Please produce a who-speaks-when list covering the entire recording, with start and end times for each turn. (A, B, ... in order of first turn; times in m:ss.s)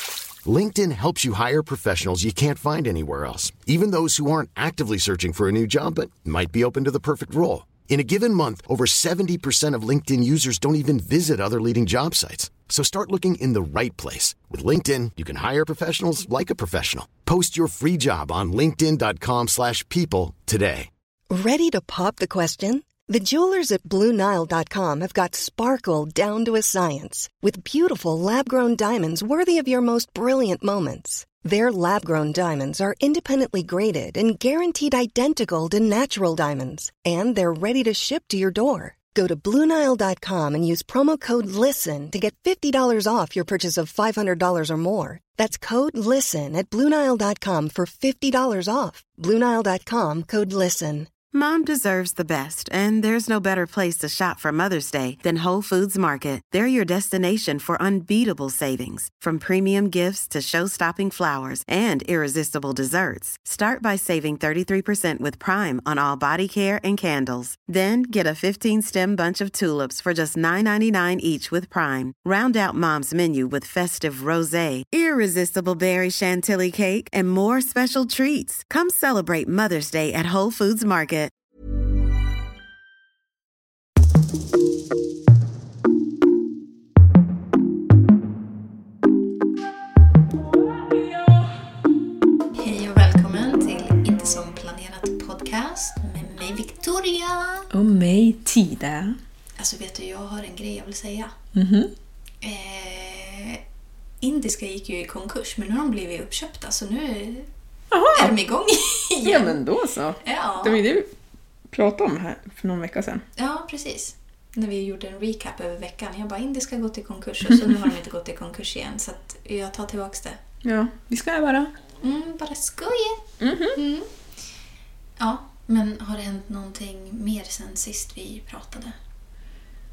0:00.5-0:20.9 A
0:21.3-0:51.1 B
0:51.3-1:21.3 C
1:32.6-1:37.7 D
1:37.7-1:39.2 E
1:39.6-1:41.3 D
1:41.5-1:41.9 E
1:42.4-1:43.6 D
1:44.2-1:47.5 D
1:47.9-1:48.3 E
1:48.1-1:49.5 D
1:49.2-1:51.1 E
1:50.2-1:50.8 D
1:51.7-1:53.2 E
1:53.4-2:00.4 D
2:00.6-2:01.7 E
2:02.0-2:04.1 D
2:03.4-2:03.8 E
2:05.2-2:09.0 D